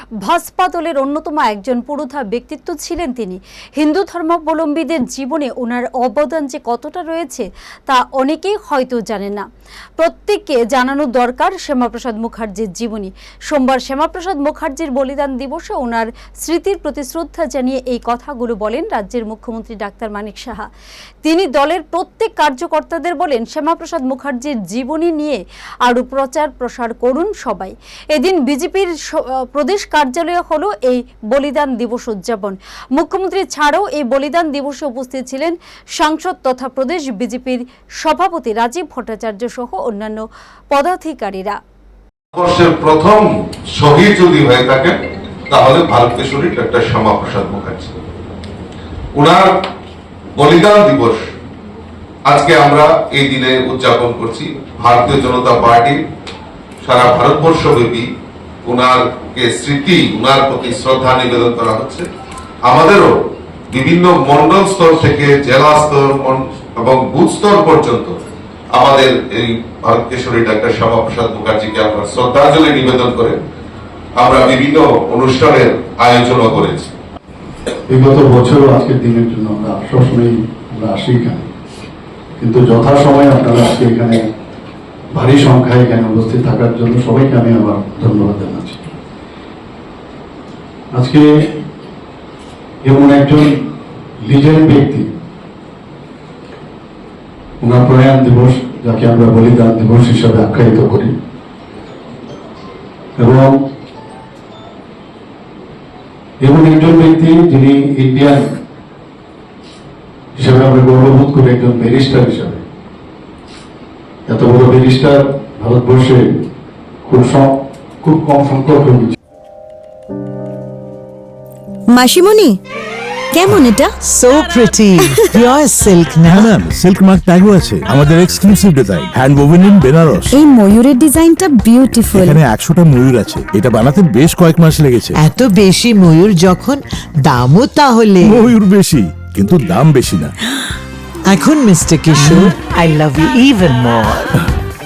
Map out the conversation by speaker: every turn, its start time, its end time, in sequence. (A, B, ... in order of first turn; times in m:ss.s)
0:00.2-0:09.4 A
0:10.0-0:20.7 A
0:21.2-0:41.6 A
0:42.3-0:45.0 B
0:45.5-0:47.9 B
0:49.2-0:49.5 B
0:50.4-0:51.2 B
0:52.3-0:56.0 B
0:56.8-0:58.0 B
0:58.7-1:02.0 B
1:02.6-1:03.1 B
1:03.7-1:08.1 B
1:08.8-1:13.4 B
1:14.2-1:16.9 B
1:17.9-1:21.5 C
1:22.4-1:24.2 C
1:25.1-1:28.8 C
1:30.9-1:31.3 C
1:32.8-1:33.6 C
1:34.2-1:35.1 C
1:37.6-1:41.1 C
1:43.2-1:43.5 C
1:46.4-1:48.5 C
1:50.4-1:52.6 C
1:54.3-1:56.3 C
1:57.0-1:57.5 C
1:58.0-1:59.2 C
2:01.9-2:02.6 D
2:03.3-2:04.0 D
2:04.1-2:06.5 E
2:06.2-2:10.3 F
2:10.3-2:12.4 D
2:12.1-2:15.2 F
2:15.2-2:18.4 E
2:18.2-2:20.3 F
2:21.3-2:24.3 E
2:22.1-2:22.4 F